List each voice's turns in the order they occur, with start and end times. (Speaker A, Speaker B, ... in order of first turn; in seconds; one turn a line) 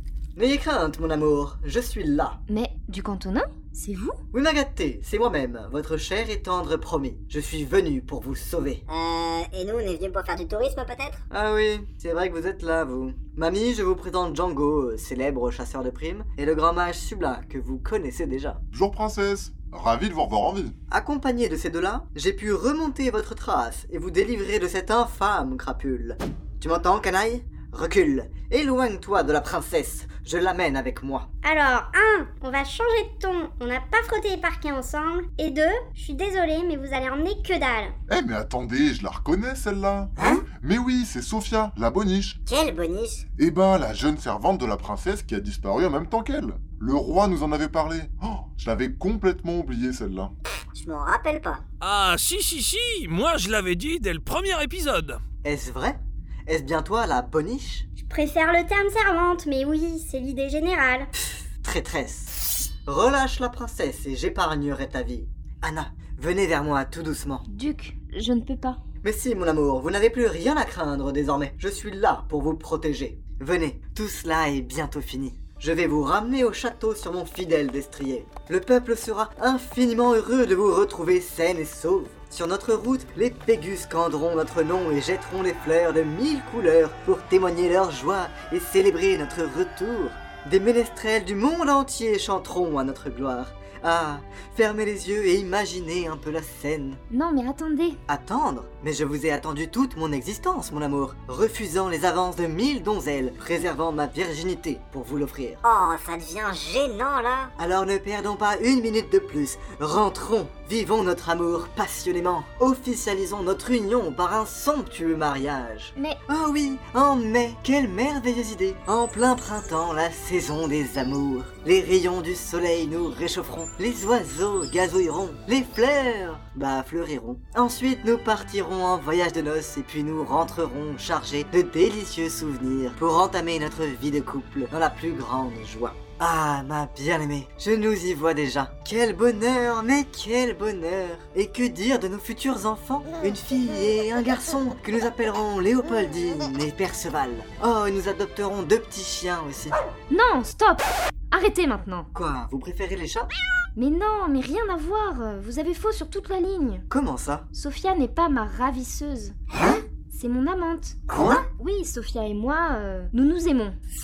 Speaker A: 0.4-2.4
Speaker B: 2.5-4.2
Speaker A: 4.3-8.8
Speaker C: 8.9-11.2
Speaker A: 11.3-18.6
Speaker D: 18.7-20.8
Speaker A: 20.9-31.3
Speaker E: 31.4-38.0
Speaker D: 38.1-42.4
Speaker C: 42.5-43.2
Speaker D: 43.4-50.3
Speaker C: 50.7-51.6
Speaker F: 51.8-55.2
Speaker A: 55.4-57.9
Speaker E: 58.0-61.1
Speaker A: 61.6-67.5
Speaker B: 67.5-68.8
Speaker A: 69.0-97.0
Speaker B: 97.1-98.0
Speaker A: 98.1-105.6
Speaker C: 105.7-107.5
Speaker A: 107.6-149.8
Speaker B: 150.1-152.1
Speaker A: 152.1-153.3
Speaker B: 153.8-156.9
Speaker A: 156.9-157.5
Speaker B: 157.5-159.4
Speaker B: 160.1-163.8
Speaker A: 161.1-161.4